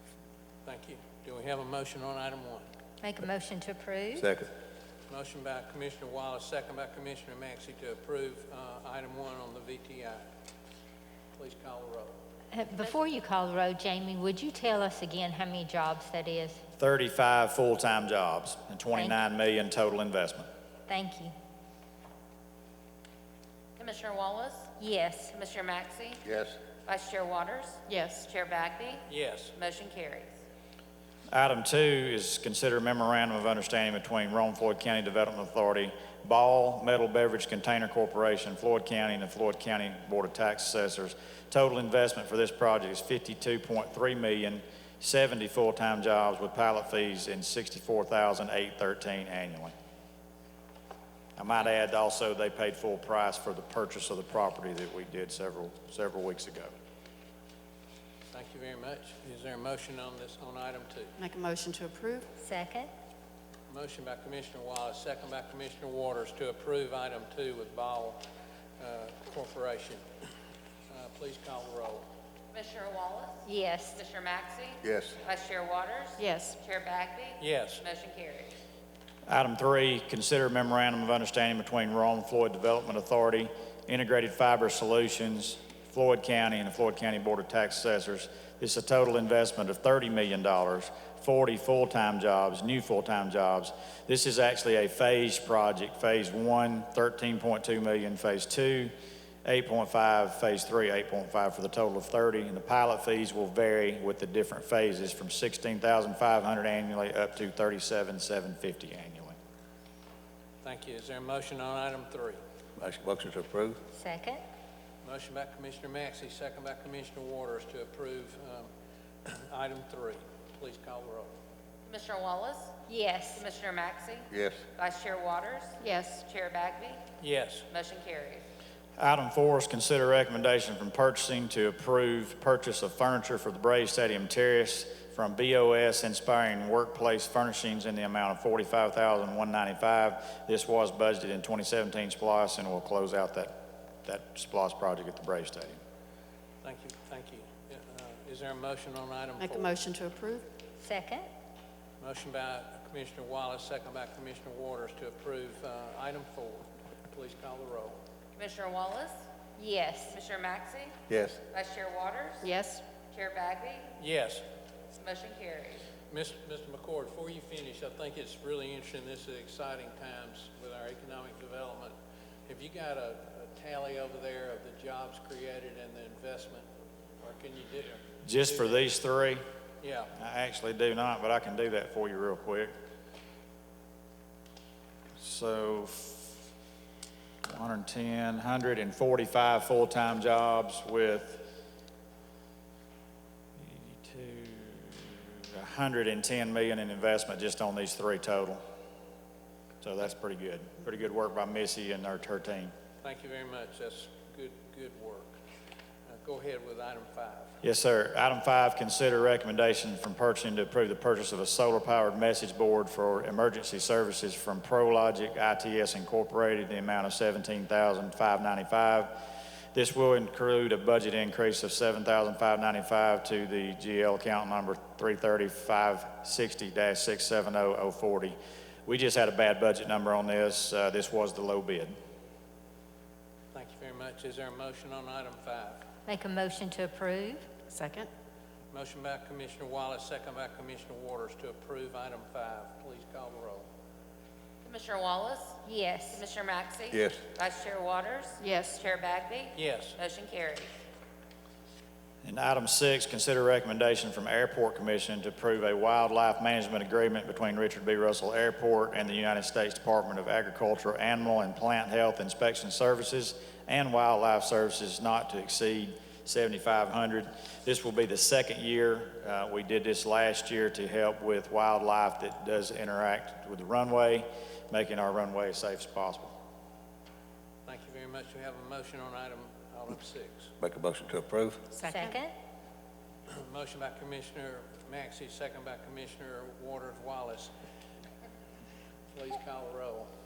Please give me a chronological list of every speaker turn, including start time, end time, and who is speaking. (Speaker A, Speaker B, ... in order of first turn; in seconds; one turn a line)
Speaker A: 0.7-2.6
Speaker B: 3.0-4.3
Speaker C: 4.2-4.5
Speaker A: 5.1-10.2
Speaker A: 11.3-12.2
Speaker B: 12.5-16.6
Speaker D: 16.8-20.5
Speaker B: 18.9-19.2
Speaker B: 20.9-21.3
Speaker E: 23.8-24.7
Speaker B: 24.8-25.3
Speaker E: 25.3-26.2
Speaker C: 26.2-26.6
Speaker E: 26.9-29.0
Speaker F: 27.9-28.3
Speaker A: 29.1-29.5
Speaker E: 29.6-30.3
Speaker D: 31.3-49.7
Speaker D: 51.4-56.7
Speaker A: 58.3-61.1
Speaker F: 61.2-62.3
Speaker B: 62.4-62.9
Speaker A: 63.7-68.2
Speaker A: 68.8-70.0
Speaker A: 70.9-72.0
Speaker E: 72.5-73.4
Speaker B: 73.5-74.0
Speaker E: 73.9-78.5
Speaker C: 74.8-75.2
Speaker F: 76.2-76.6
Speaker A: 77.4-77.8
Speaker D: 79.3-98.9
Speaker D: 99.5-109.4
Speaker A: 110.6-112.4
Speaker C: 112.8-113.8
Speaker B: 113.9-114.4
Speaker A: 115.0-118.7
Speaker A: 119.3-121.3
Speaker E: 121.9-122.8
Speaker B: 122.9-123.5
Speaker E: 123.3-127.0
Speaker C: 124.3-124.6
Speaker F: 125.8-126.2
Speaker A: 127.2-127.7
Speaker E: 127.7-128.4
Speaker D: 129.0-145.8
Speaker A: 146.6-149.8
Speaker F: 149.4-150.5
Speaker B: 150.8-151.3
Speaker A: 152.0-158.0
Speaker E: 158.3-159.2
Speaker B: 159.6-160.2
Speaker E: 160.1-160.9
Speaker C: 161.1-161.4
Speaker E: 161.5-162.5
Speaker F: 162.4-162.8
Speaker E: 163.1-163.9
Speaker A: 164.0-164.4
Speaker E: 165.0-165.9
Speaker A: 166.1-171.9
Speaker A: 172.5-176.7
Speaker A: 177.2-178.0
Speaker D: 178.2-179.4
Speaker A: 179.8-180.1
Speaker D: 180.2-182.7
Speaker D: 185.2-186.3
Speaker D: 187.5-191.5
Speaker D: 193.6-198.6
Speaker D: 199.8-202.7
Speaker A: 203.0-205.3
Speaker A: 206.1-207.5
Speaker D: 207.6-231.9
Speaker A: 233.5-235.8
Speaker B: 236.1-237.5
Speaker F: 237.7-238.1
Speaker A: 238.7-243.7
Speaker E: 244.6-250.7
Speaker B: 245.6-246.2
Speaker C: 246.9-247.2
Speaker F: 248.4-248.8
Speaker A: 249.6-250.0
Speaker D: 252.2-276.4
Speaker A: 277.7-280.5
Speaker C: 280.6-281.7
Speaker F: 281.7-282.2
Speaker B: 281.9-282.3
Speaker A: 283.3-287.5
Speaker A: 289.1-290.1